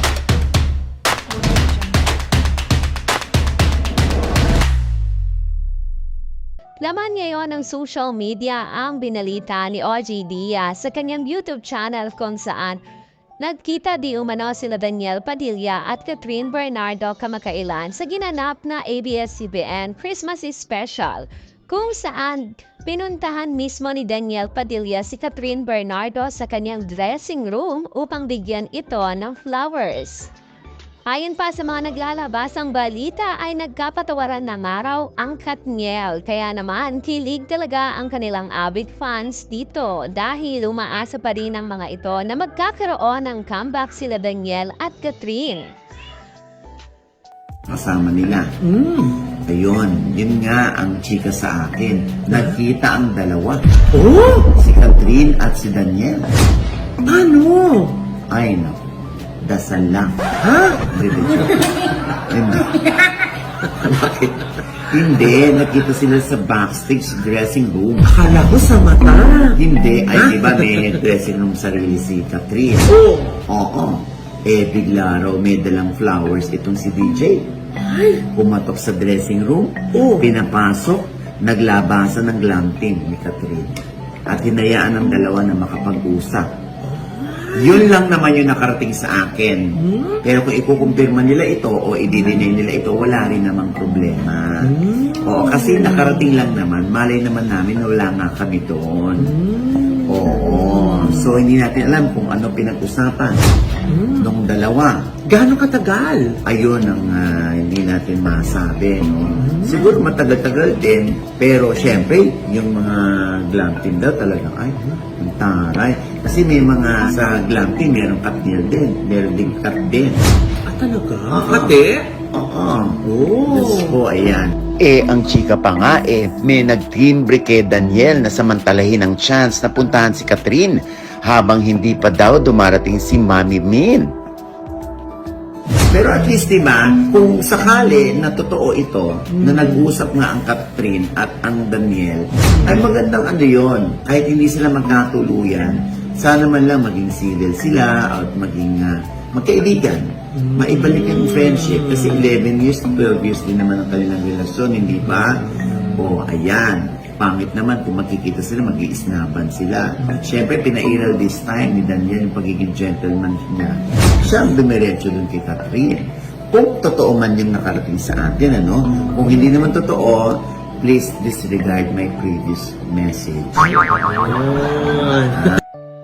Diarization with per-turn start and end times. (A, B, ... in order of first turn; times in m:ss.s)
0:06.8-0:12.8 A
0:13.4-0:30.3 A
0:31.1-0:45.7 A
0:47.7-0:48.5 B
0:48.6-0:49.2 C
0:49.5-0:53.6 B
0:53.9-0:54.5 C
0:54.5-0:56.3 B
0:57.0-0:58.0 C
0:58.3-0:58.8 B
0:59.4-1:00.3 B
1:00.4-1:01.6 C
1:00.9-1:02.8 B
1:03.8-1:08.2 B
1:08.1-1:09.6 C
1:09.5-1:17.5 B
1:10.2-1:11.0 C
1:12.9-1:13.3 C
1:17.8-1:18.2 C
1:18.2-1:26.5 B
1:19.9-1:20.2 C
1:26.8-1:27.8 C
1:27.5-1:39.4 B
1:29.8-1:30.2 C
1:34.6-1:36.1 C
1:39.2-1:41.1 C
1:40.0-1:43.4 B
1:43.9-1:44.3 C
1:44.2-1:45.1 B
1:45.2-1:46.4 C
1:46.4-2:00.3 B
1:49.4-1:49.8 C
2:00.6-2:02.1 C
2:01.3-2:01.8 B
2:02.3-2:14.1 B
2:03.0-2:04.0 C
2:15.7-2:53.8 B
2:54.1-2:55.4 C
2:55.3-2:55.6 B